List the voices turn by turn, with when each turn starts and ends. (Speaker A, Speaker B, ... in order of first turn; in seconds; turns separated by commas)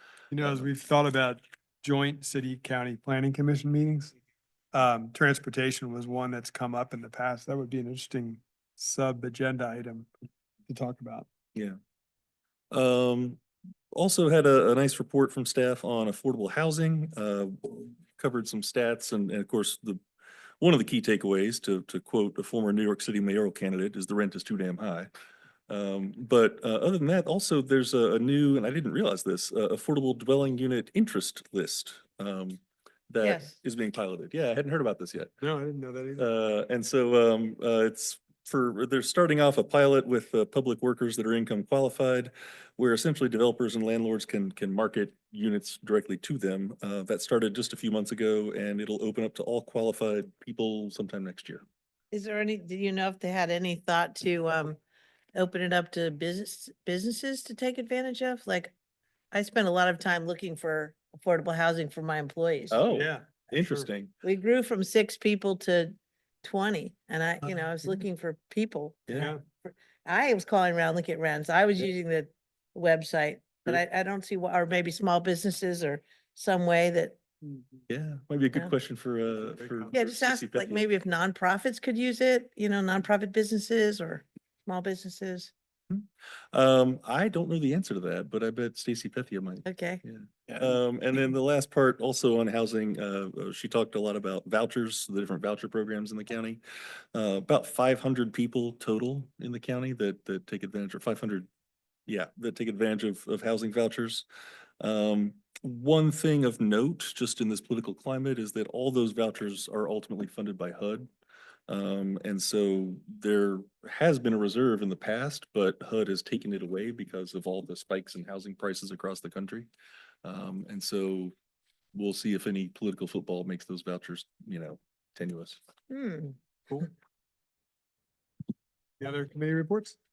Speaker A: 0.3-4.1, Speaker B: 0.4-0.7, Speaker A: 4.7-10.1, Speaker A: 10.7-11.2, Speaker B: 12.7-13.4, Speaker B: 13.9-20.0, Speaker B: 20.6-25.1, Speaker B: 25.7-35.3, Speaker C: 33.2-33.5, Speaker A: 35.4-36.3, Speaker B: 36.2-51.6, Speaker C: 52.1-54.8, Speaker C: 55.3-58.7, Speaker C: 59.3-62.8, Speaker B: 62.7-64.1, Speaker A: 62.9-63.9, Speaker C: 64.2-77.2, Speaker B: 69.1-69.3, Speaker A: 69.1-69.4, Speaker B: 77.9-80.8, Speaker C: 79.9-85.5, Speaker B: 85.9-96.6, Speaker C: 89.6-90.0, Speaker B: 97.1-101.5, Speaker B: 102.1-104.2, Speaker B: 104.8-111.1, Speaker B: 111.7-119.7, Speaker B: 120.2-121.3, Speaker B: 121.9-125.6, Speaker C: 125.9-126.4, Speaker A: 129.0-130.0